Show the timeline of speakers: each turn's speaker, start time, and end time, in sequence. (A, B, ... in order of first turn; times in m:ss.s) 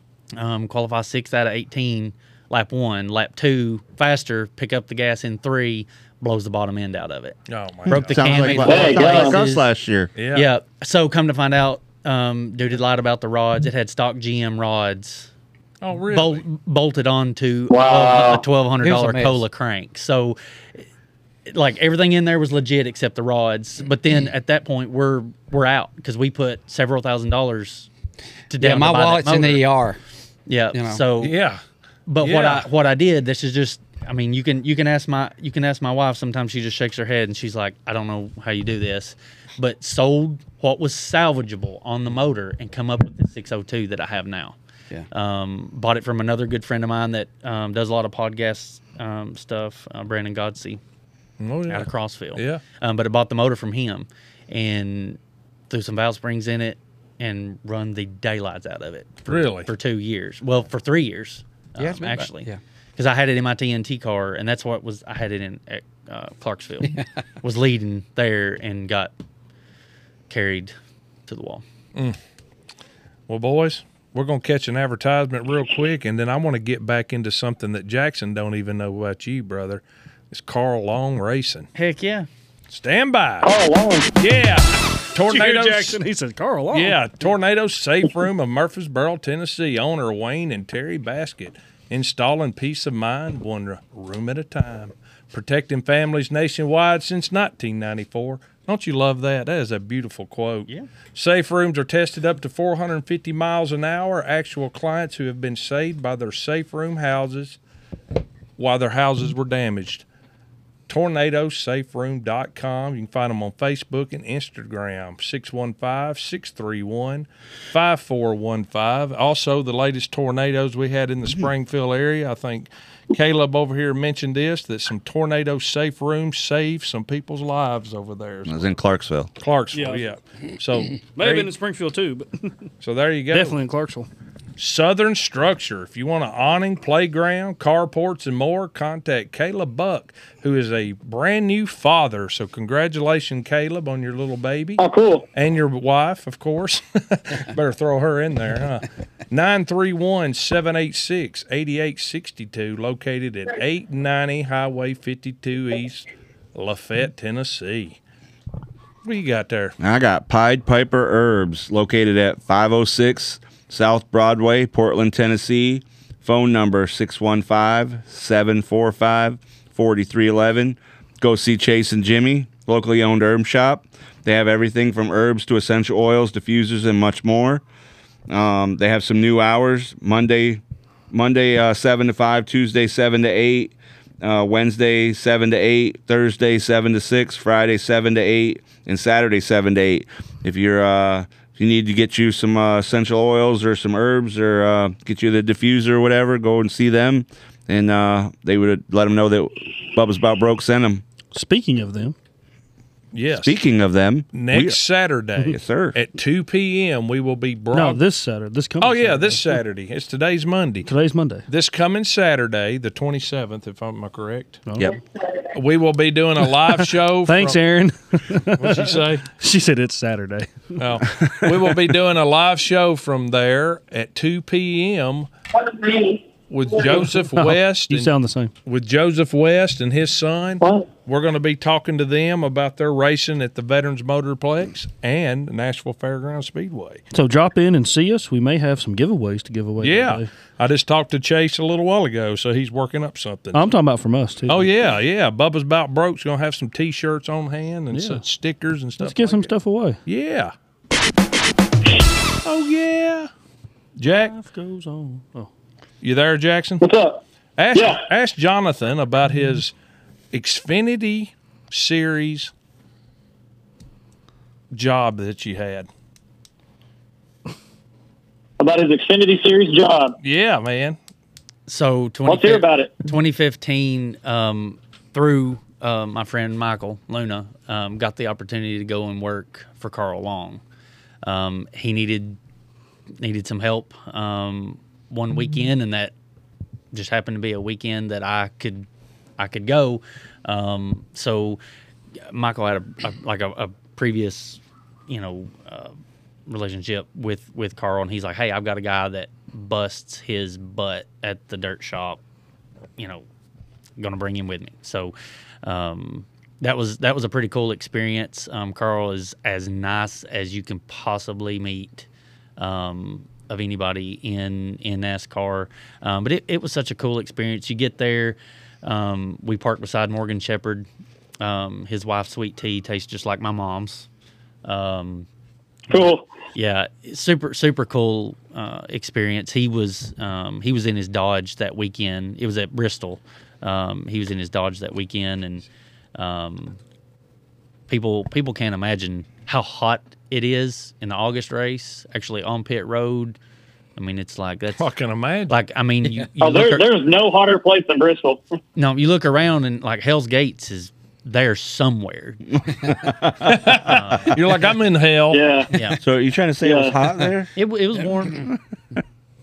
0:00.4-0:09.7 A
0:07.5-0:08.2 B
0:07.9-0:10.1 C
0:08.6-0:09.4 D
0:10.1-0:10.5 B
0:10.3-0:15.3 A
0:15.8-0:16.4 B
0:16.1-0:20.4 A
0:17.7-0:18.4 D
0:18.8-0:19.4 E
0:21.5-0:27.9 A
0:28.5-0:29.6 A
0:28.6-0:30.0 E
0:30.5-0:31.4 A
0:30.7-0:31.0 E
0:31.2-0:31.6 B
0:32.1-0:44.6 A
0:32.2-0:32.7 B
0:45.1-0:50.8 A
0:51.4-0:52.6 B
0:51.7-0:55.2 A
0:55.7-1:09.1 A
0:59.3-0:59.7 B
1:01.8-1:02.6 E
1:10.3-1:10.7 A
1:11.3-1:11.6 A
1:13.3-1:21.7 B
1:21.7-1:22.3 A
1:22.7-1:23.5 B
1:23.4-1:24.1 D
1:24.2-1:26.0 B
1:25.2-1:27.0 F
1:26.7-1:47.6 B
1:48.6-1:50.0 B
1:50.9-2:08.7 B
2:08.4-2:09.3 C
2:09.4-2:11.5 B
2:09.7-2:10.0 F
2:11.1-2:12.5 F
2:12.8-2:13.6 B
2:13.3-2:14.1 F
2:14.6-2:38.0 B
2:24.8-2:25.3 D
2:39.0-2:39.7 B
2:39.8-2:57.6 C
2:58.3-3:21.0 C
3:21.3-3:22.1 F
3:23.1-3:23.6 B
3:23.3-3:24.8 C
3:24.3-3:28.0 B
3:25.4-3:26.0 C
3:27.7-3:29.5 F
3:28.8-3:30.9 B
3:30.9-3:31.4 F
3:31.5-3:34.6 B
3:34.6-3:34.9 F
3:35.5-3:37.6 B
3:36.6-3:41.0 F
3:38.5-3:39.3 B
3:40.8-3:45.3 B
3:45.6-3:46.2 D
3:46.5-3:48.1 B
3:46.9-3:48.5 F
3:48.6-3:57.0 B
3:50.6-3:50.9 D
3:57.1-4:00.3 F
3:59.8-4:03.7 B
4:03.5-4:04.8 F
4:04.5-4:09.5 B
4:07.9-4:08.2 F
4:09.0-4:10.0 F
4:10.0-4:10.5 B
4:12.4-4:13.3 B
4:14.0-4:14.3 B
4:14.1-4:15.5 F
4:16.0-4:16.8 B
4:16.8-4:17.2 D
4:17.6-4:19.7 B
4:17.7-4:18.0 D
4:20.3-4:22.5 B
4:24.7-4:25.9 B
4:28.6-4:30.2 D
4:30.2-4:31.0 B
4:31.7-4:40.6 A
4:32.3-4:33.0 D
4:41.2-4:42.4 A
4:43.2-4:46.1 A
4:46.9-4:48.9 A
4:49.4-4:51.6 A
4:52.3-4:55.9 A
4:56.5-5:02.2 A
5:03.0-5:03.2 A
5:04.0-5:12.0 A
5:12.6-5:20.9 A
5:21.4-5:24.1 A
5:24.6-5:25.3 A
5:25.9-5:26.3 D
5:26.6-5:36.8 A
5:37.9-5:43.4 A
5:44.0-5:44.9 A
5:44.8-5:45.6 B
5:45.5-5:46.9 A
5:46.4-5:48.4 D
5:48.8-5:52.6 A
5:52.8-5:53.7 C
5:53.4-5:55.4 B
5:53.8-5:54.4 A
5:55.3-5:55.7 D
5:55.7-5:56.0 A
5:56.0-5:57.5 C
5:56.6-5:57.0 D
5:57.6-5:58.5 A